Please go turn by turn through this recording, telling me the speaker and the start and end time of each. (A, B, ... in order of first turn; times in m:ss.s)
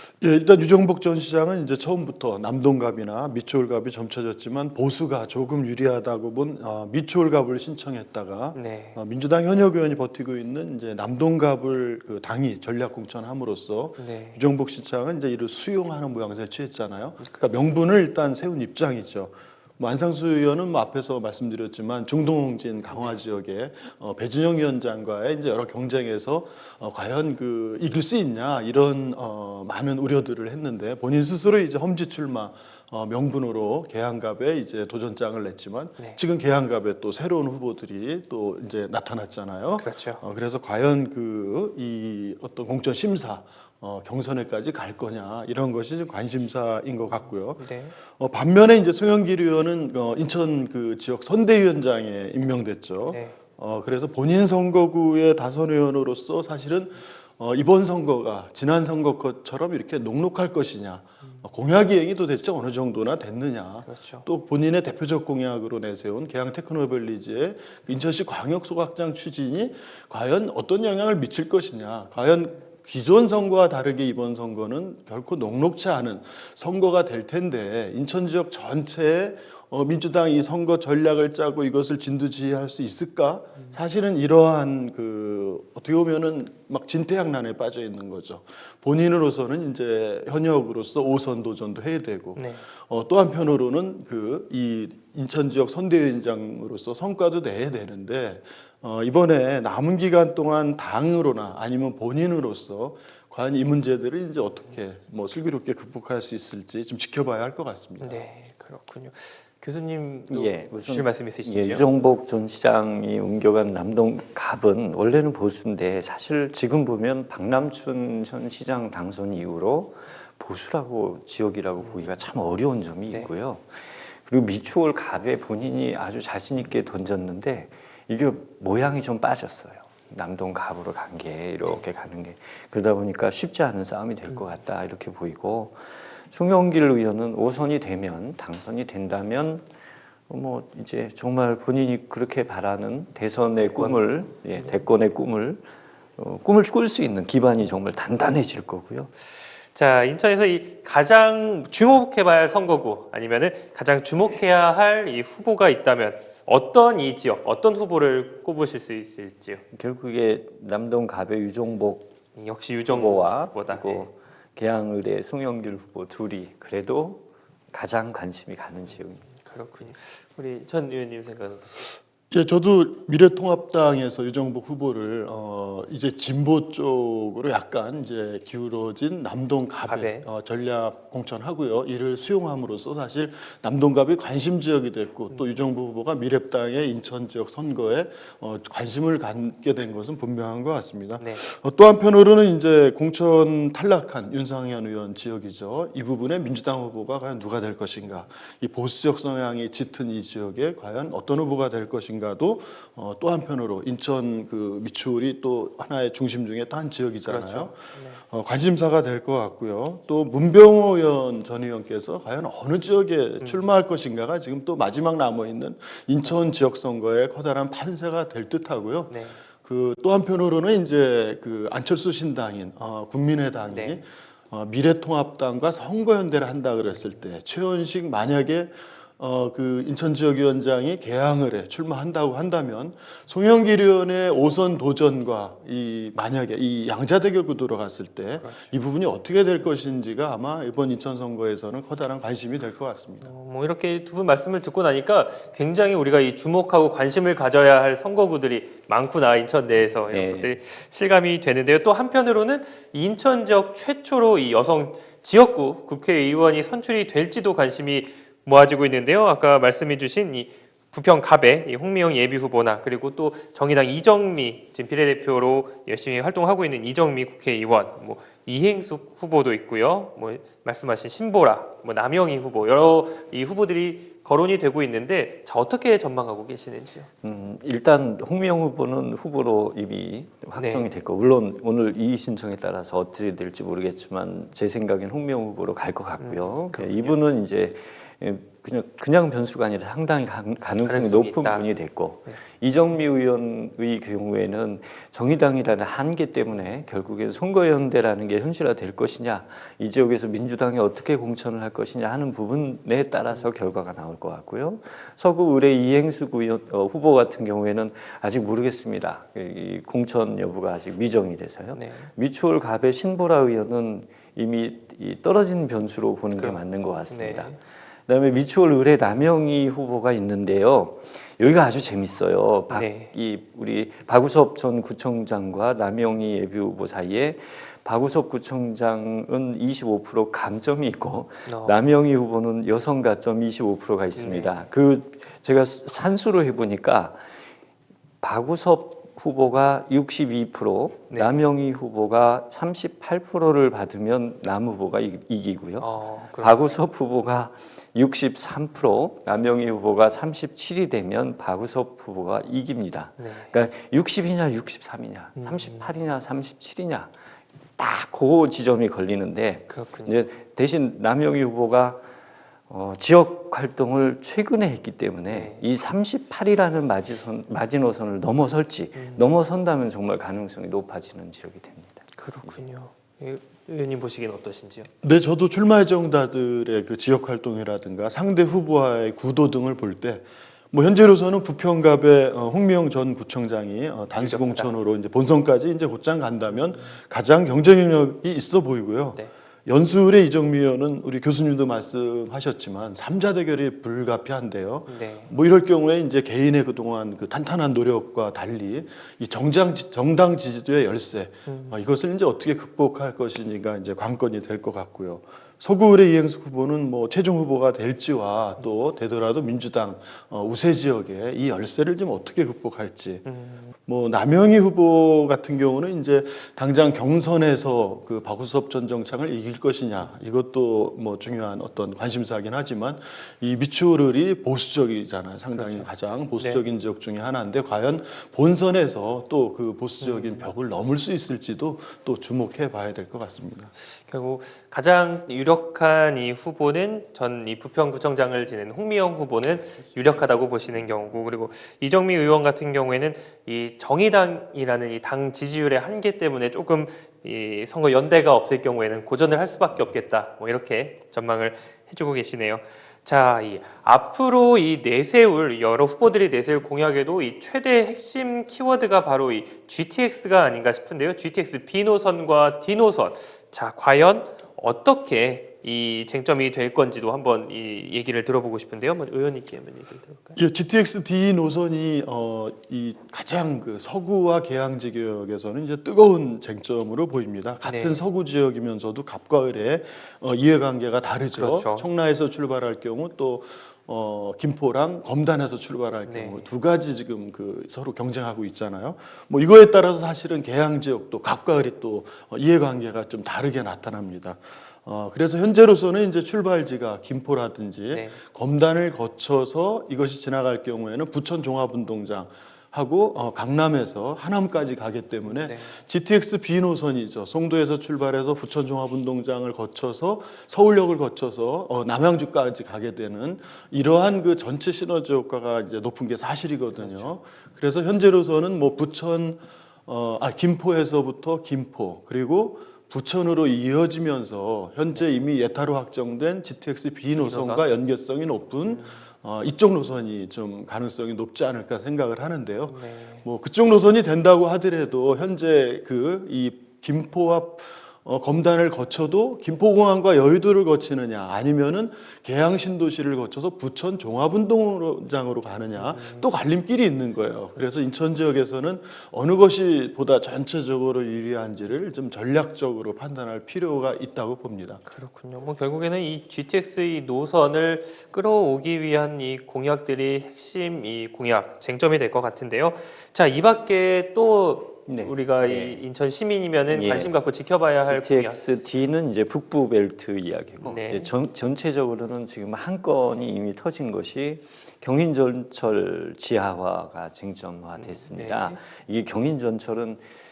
0:00.2-1:48.2 A
0:08.5-0:09.0 B
0:14.0-0:14.4 B
0:22.9-0:23.2 B
0:39.8-0:40.2 B
0:47.6-0:47.9 B
0:53.1-0:53.4 B
1:03.8-1:04.2 B
1:32.4-1:32.6 B
1:48.0-1:51.8 B
1:50.3-2:19.6 C
2:01.8-2:02.1 B
2:20.3-2:25.6 C
2:23.6-2:24.8 B
2:26.2-2:29.1 C
2:29.7-2:39.6 B
2:39.7-2:42.1 C
2:42.4-2:44.1 B
2:42.9-2:49.3 C
2:48.9-2:52.0 B
2:52.3-4:03.3 A
2:59.9-3:00.2 B
3:11.2-3:11.4 B
3:27.2-3:28.2 B
3:39.1-3:39.4 B
3:43.7-3:44.0 B
3:58.4-3:58.7 B
4:03.2-4:37.1 B
4:10.1-4:10.6 C
4:37.2-5:37.2 C
4:40.6-4:40.9 B
4:46.2-4:47.2 B
4:50.8-4:51.7 B
5:11.7-5:12.1 B
5:16.4-5:17.6 B
5:22.7-5:23.1 B
5:31.4-5:31.8 B
5:34.2-5:34.6 B
5:38.2-5:57.1 C
5:41.1-5:41.4 B
5:45.8-5:46.8 B
5:53.2-5:53.5 B
5:55.4-5:55.9 B
5:57.8-6:02.0 C
5:59.7-6:00.2 B
6:02.7-6:12.6 C
6:05.3-6:05.6 B
6:08.9-6:09.2 B
6:12.2-6:14.9 B
6:15.0-6:53.2 A
6:24.2-6:24.7 B
6:34.9-6:35.3 B
6:41.4-6:41.8 B
6:53.2-6:53.7 B
6:53.8-7:13.7 A
7:05.5-7:06.6 B
7:10.0-7:10.5 B
7:13.8-7:50.4 B
7:50.4-9:14.8 A
7:57.6-7:58.0 B
8:01.3-8:01.9 B
8:06.0-8:06.4 B
8:17.9-8:18.2 B
8:25.2-8:25.8 B
8:36.7-8:37.2 B
8:47.2-8:47.7 B
8:48.7-8:49.1 B
8:52.7-8:53.2 B
9:05.8-9:06.2 B
9:14.8-9:28.4 B
9:24.9-9:25.8 C
9:26.7-9:27.2 C
9:27.8-9:40.1 C
9:30.6-9:31.1 B
9:37.8-9:38.6 B